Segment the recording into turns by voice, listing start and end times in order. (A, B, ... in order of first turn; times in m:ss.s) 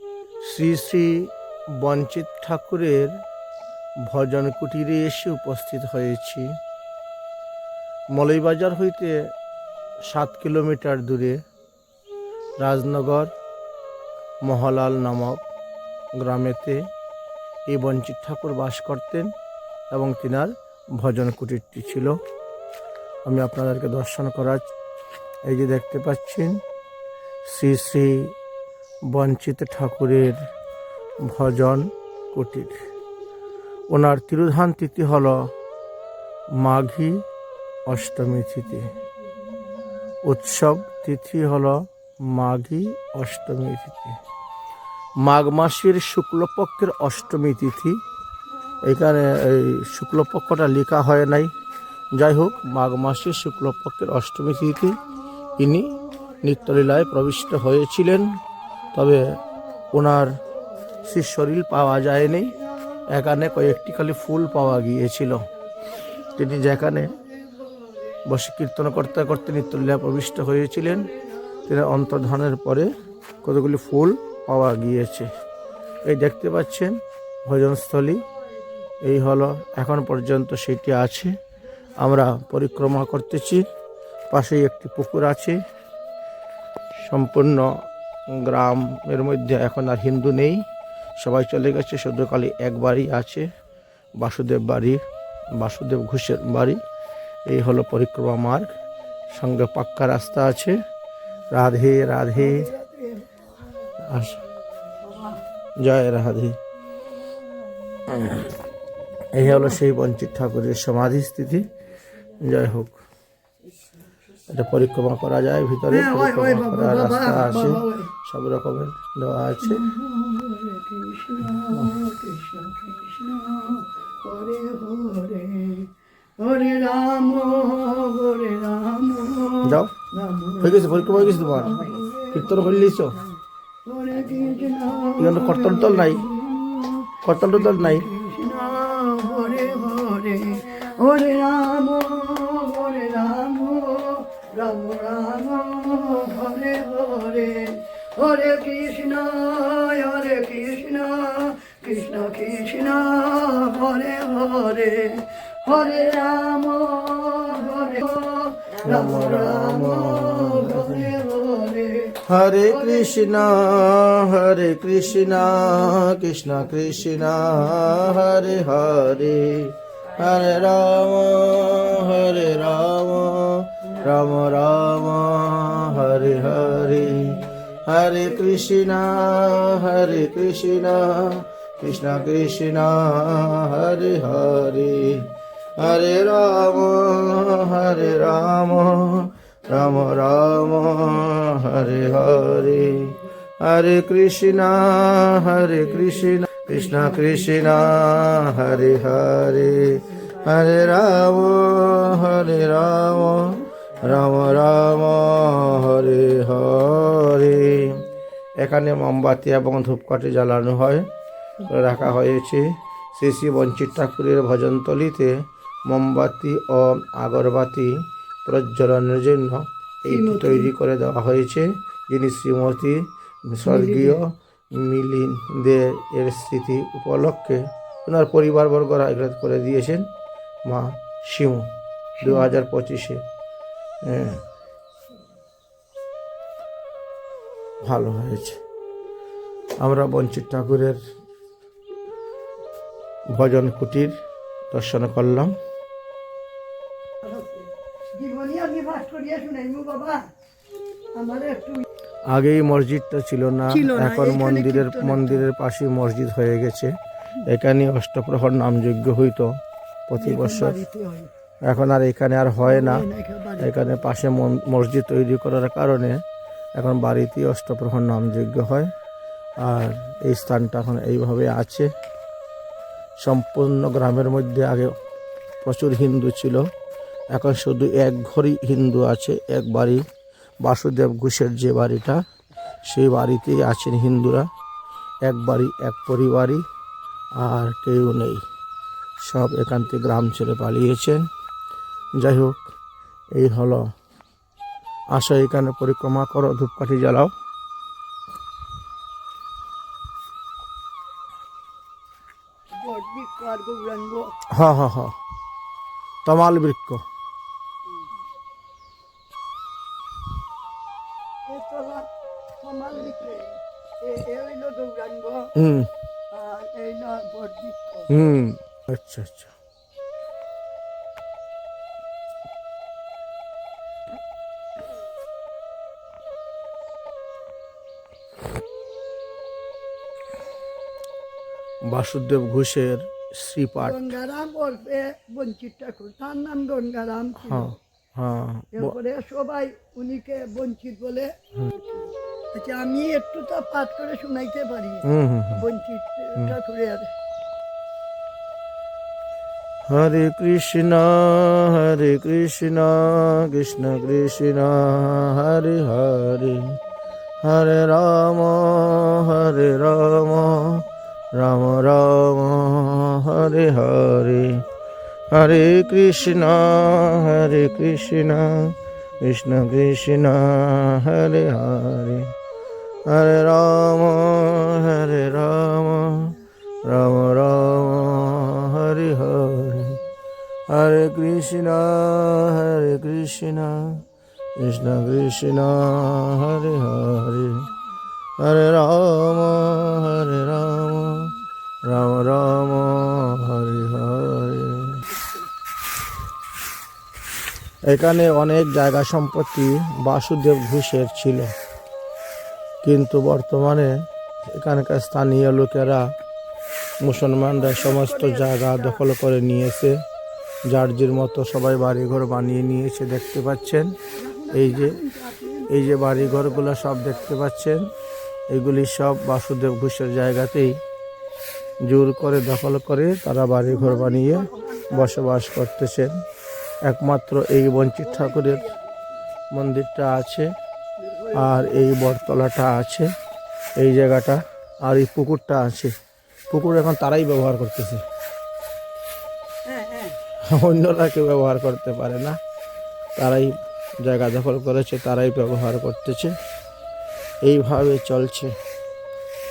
0:00.4-0:03.1 A
0:04.1-0:06.5 A
0:08.1-0:09.2 A
0:10.1-0:11.4 A
0:12.6-0:13.3 A
0:14.5-0:15.4 A
0:16.2-0:16.8 A
0:17.7-0:19.3 A
0:19.9-0:22.2 A
0:23.3-0:24.7 A
0:25.5-0:26.6 A
0:27.5-0:28.3 A
0:29.1-0:30.4 A
0:31.3-0:32.8 A
0:33.9-0:35.4 A
0:36.6-0:37.2 A
0:37.9-0:38.9 A
0:40.2-0:44.2 A
0:45.2-0:48.0 A
0:48.8-0:51.5 A
0:52.1-0:55.0 A
0:55.4-0:56.7 B
0:55.6-0:58.4 A
0:58.9-0:59.4 A
0:59.9-1:00.4 A
1:01.0-1:05.5 A
1:02.5-1:03.6 B
1:05.8-1:08.2 B
1:06.3-1:07.2 A
1:08.2-1:11.1 A
1:11.1-1:12.1 B
1:11.6-1:12.9 A
1:13.4-1:15.3 A
1:16.0-1:18.2 A
1:19.0-1:21.4 A
1:22.0-1:23.6 A
1:24.3-1:25.6 A
1:27.0-1:27.8 A
1:28.3-1:30.6 A
1:31.2-1:33.5 A
1:34.2-1:35.0 A
1:35.6-1:36.8 A
1:37.5-1:38.7 A
1:39.4-1:40.8 A
1:41.5-1:42.7 A
1:42.3-1:43.5 B
1:44.0-1:44.4 A
1:45.0-1:45.4 B
1:45.8-1:46.6 A
1:48.1-1:48.5 A
1:49.3-1:51.7 A
1:49.4-1:49.8 B
1:52.4-1:53.0 A
1:54.5-1:59.8 A
1:55.9-1:58.1 B
1:59.6-2:43.6 B
2:09.6-2:09.9 A
2:10.6-2:13.2 A
2:15.2-2:16.2 A
2:17.2-2:18.1 A
2:38.8-2:41.1 A
2:42.2-3:28.0 A
3:28.6-3:31.1 A
3:31.7-3:35.3 A
3:35.9-3:37.9 A
3:38.4-3:50.1 A
3:40.1-3:40.7 B
3:43.6-3:44.2 B
3:50.7-3:51.7 A
3:52.2-3:52.6 B
3:52.2-3:53.2 A
3:54.0-3:54.4 A
3:57.8-3:58.6 A
3:59.8-4:01.0 A
4:03.3-4:04.1 A
4:04.7-4:05.5 A
4:07.2-4:10.3 B
4:11.2-4:11.8 B
4:12.3-4:16.9 A
4:13.7-4:15.5 B
4:17.4-4:19.5 A
4:20.1-4:20.8 A
4:20.2-4:21.3 B
4:21.7-4:23.0 A
4:22.6-4:24.1 B
4:23.6-4:26.2 A
4:26.8-4:28.9 A
4:29.6-4:31.9 A
4:33.2-4:34.9 A
4:35.6-4:36.6 A
4:37.3-4:40.0 A
4:40.6-4:42.2 A
4:42.9-4:44.5 A
4:45.3-4:46.6 A
4:47.4-4:48.4 A
4:49.2-4:51.2 A
4:52.2-4:52.6 A
4:53.4-4:53.8 A
4:55.1-4:57.3 A
5:02.7-5:04.3 B
5:04.5-5:05.1 A
5:06.3-5:07.0 A
5:11.5-5:12.1 B
5:12.6-5:15.5 B
5:15.6-5:15.9 A
5:16.3-5:18.1 B
5:18.1-5:19.5 A
5:31.9-5:34.1 A
5:33.8-5:37.7 B
5:37.4-5:39.0 A
5:38.8-5:47.1 B
5:45.0-5:45.6 A
5:49.9-5:56.8 A
5:57.4-6:04.6 A
6:05.3-6:12.3 A
6:13.1-6:20.0 A
6:20.7-6:24.0 A
6:24.6-6:27.7 A
6:28.4-6:31.3 A
6:31.8-6:35.0 A
6:37.9-6:41.5 A
6:42.8-6:43.9 A
6:44.6-6:46.0 A
6:47.0-6:49.9 A
6:47.5-6:49.0 B
6:50.7-6:54.0 A
6:54.1-6:57.4 B
6:54.5-6:55.0 A
6:55.7-6:57.8 A
6:58.5-7:00.7 A
7:01.9-7:06.1 A
7:03.6-7:05.2 B
7:06.9-7:08.6 A
7:08.0-7:08.9 B
7:09.5-7:10.5 A
7:11.0-7:11.8 B
7:11.3-7:13.1 A
7:13.8-7:15.9 A
7:16.5-7:18.0 A
7:19.7-7:20.2 B
7:20.4-7:22.4 A
7:23.2-7:26.3 A
7:27.4-7:28.5 A